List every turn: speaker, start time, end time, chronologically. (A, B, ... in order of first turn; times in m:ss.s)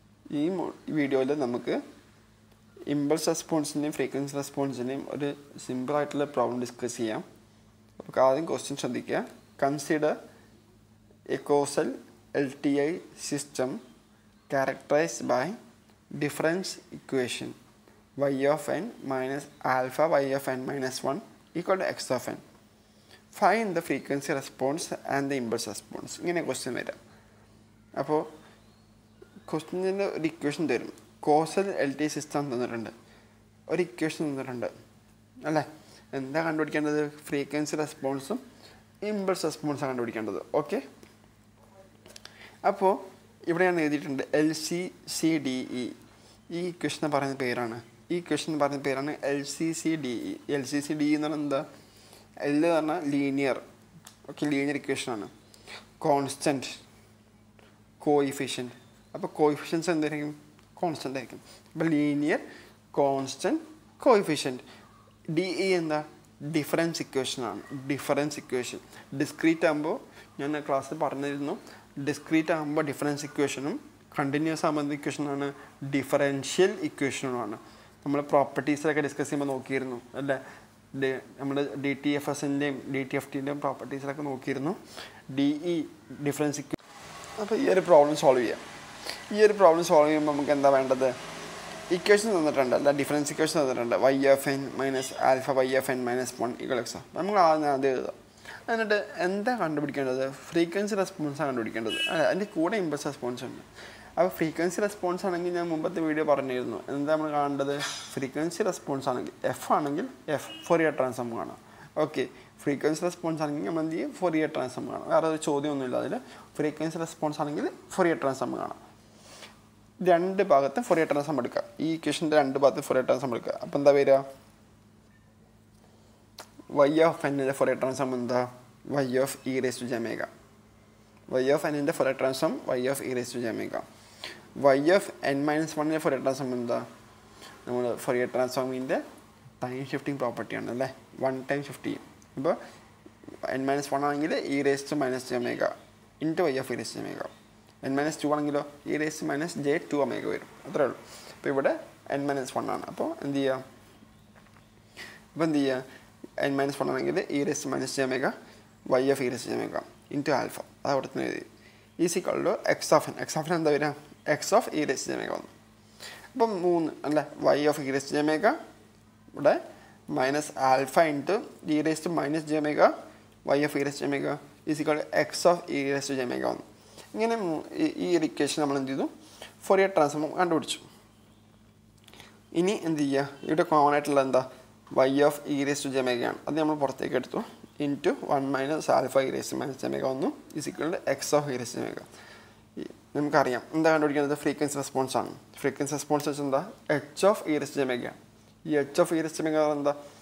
0:00.3-0:01.8 A
0:02.9-0:07.2 A
0:08.0-0:10.2 A
0:11.3-0:13.8 A
0:14.5-0:15.6 A
0:16.1-0:17.6 A
0:18.2-0:22.4 A
0:23.3-0:27.0 A
0:28.0-0:28.3 A
0:29.5-0:32.9 A
0:33.7-0:34.7 A
0:35.4-0:38.4 A
0:39.0-0:40.8 A
0:42.6-0:46.0 A
0:46.5-0:51.6 A
0:52.4-0:53.6 A
0:54.3-0:55.3 A
0:56.0-0:56.8 A
0:58.0-1:04.6 A
1:05.3-1:20.4 A
1:20.9-1:24.8 A
1:25.3-1:26.8 A
1:27.4-1:28.6 A
1:29.3-1:31.2 A
1:31.9-1:43.6 A
1:44.2-1:58.8 A
2:00.0-2:04.2 A
2:06.7-2:10.3 A
2:11.3-2:13.8 A
2:14.6-2:16.8 A
2:17.6-2:19.0 A
2:19.6-2:22.6 A
2:23.4-2:27.3 A
2:27.8-2:33.6 A
2:35.3-2:35.8 A
2:36.4-2:38.3 A
2:38.9-2:41.4 A
2:42.0-2:45.5 A
2:46.3-2:48.6 A
2:49.3-2:49.6 A
2:50.1-2:52.9 A
2:53.4-3:00.8 A
3:02.5-3:12.0 A
3:12.8-3:20.0 A